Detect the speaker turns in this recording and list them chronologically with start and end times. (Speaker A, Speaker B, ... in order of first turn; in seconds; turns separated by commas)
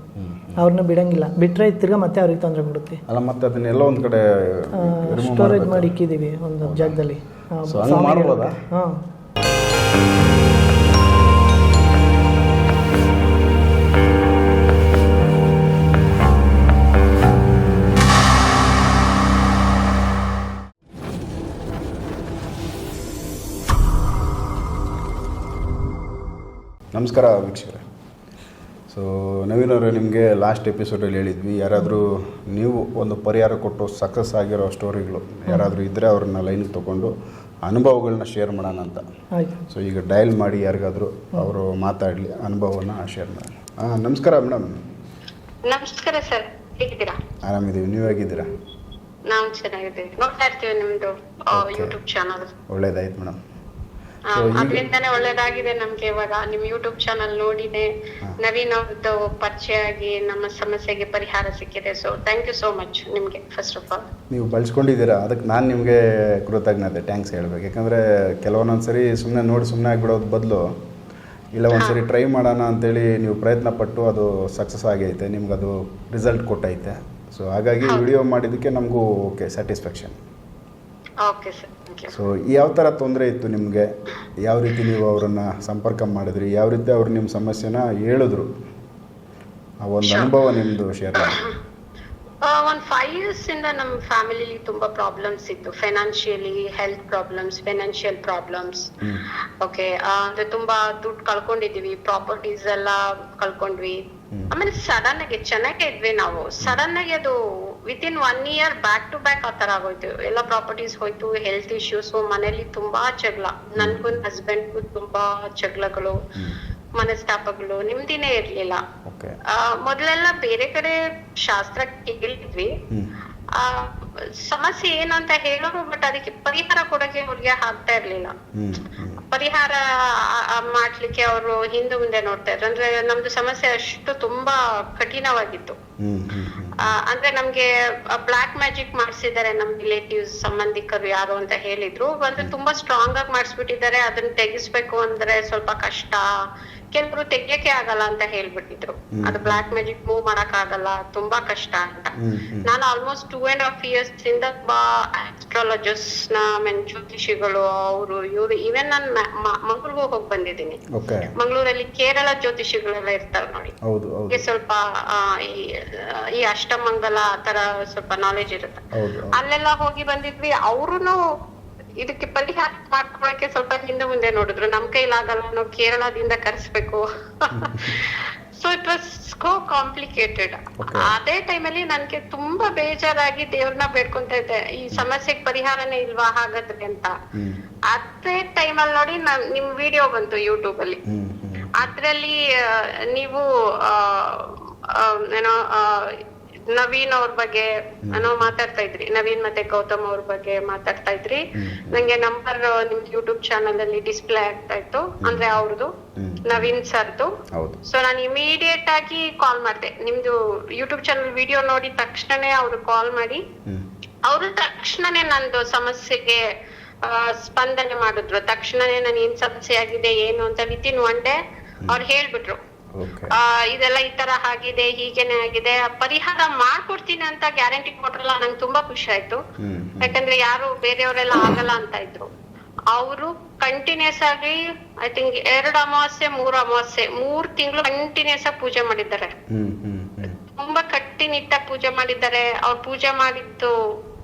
Speaker A: 0.2-0.6, Speaker B: 0.6-3.0, Speaker A: 3.1-6.0, Speaker B: 4.7-9.0, Speaker A: 6.6-7.0, Speaker A: 7.7-8.6, Speaker A: 26.9-27.8, Speaker A: 28.9-37.1, Speaker A: 37.6-39.0, Speaker B: 39.3-39.6, Speaker A: 39.7-44.7, Speaker C: 45.7-47.2, Speaker A: 47.4-48.5, Speaker C: 49.3-52.5, Speaker A: 51.5-52.0, Speaker A: 52.7-53.4, Speaker C: 54.3-64.0, Speaker A: 54.3-54.9, Speaker A: 64.3-70.7, Speaker A: 71.5-80.2, Speaker C: 71.7-72.0, Speaker C: 81.2-82.1, Speaker A: 82.1-83.9, Speaker A: 84.4-88.5, Speaker A: 89.8-91.5, Speaker C: 90.0-90.3, Speaker C: 91.2-91.5, Speaker C: 92.4-98.9, Speaker C: 99.6-116.2, Speaker A: 113.8-114.2, Speaker C: 117.0-118.8, Speaker A: 119.0-119.4, Speaker C: 119.5-122.7, Speaker C: 123.5-128.3, Speaker A: 128.5-129.2, Speaker C: 129.3-135.8, Speaker A: 136.0-136.9, Speaker C: 136.8-146.3, Speaker C: 146.9-160.8, Speaker A: 149.1-149.6, Speaker A: 152.2-152.7, Speaker A: 160.9-161.3, Speaker C: 161.3-163.7, Speaker A: 163.8-164.4, Speaker C: 164.3-171.2, Speaker A: 168.9-169.4, Speaker C: 172.0-187.1, Speaker A: 177.5-178.0, Speaker A: 180.8-181.1, Speaker C: 187.9-191.0, Speaker A: 191.1-191.9, Speaker C: 191.7-205.9, Speaker A: 198.1-198.5, Speaker A: 201.6-202.0, Speaker A: 205.2-205.6, Speaker A: 206.2-206.7, Speaker C: 206.5-207.3, Speaker A: 207.5-207.8, Speaker C: 207.8-213.4, Speaker C: 214.3-216.4, Speaker C: 217.0-222.6, Speaker A: 222.9-223.3, Speaker C: 223.3-229.4, Speaker A: 229.6-230.2, Speaker C: 230.0-232.3, Speaker C: 232.9-239.3, Speaker A: 239.5-240.4, Speaker C: 240.5-243.7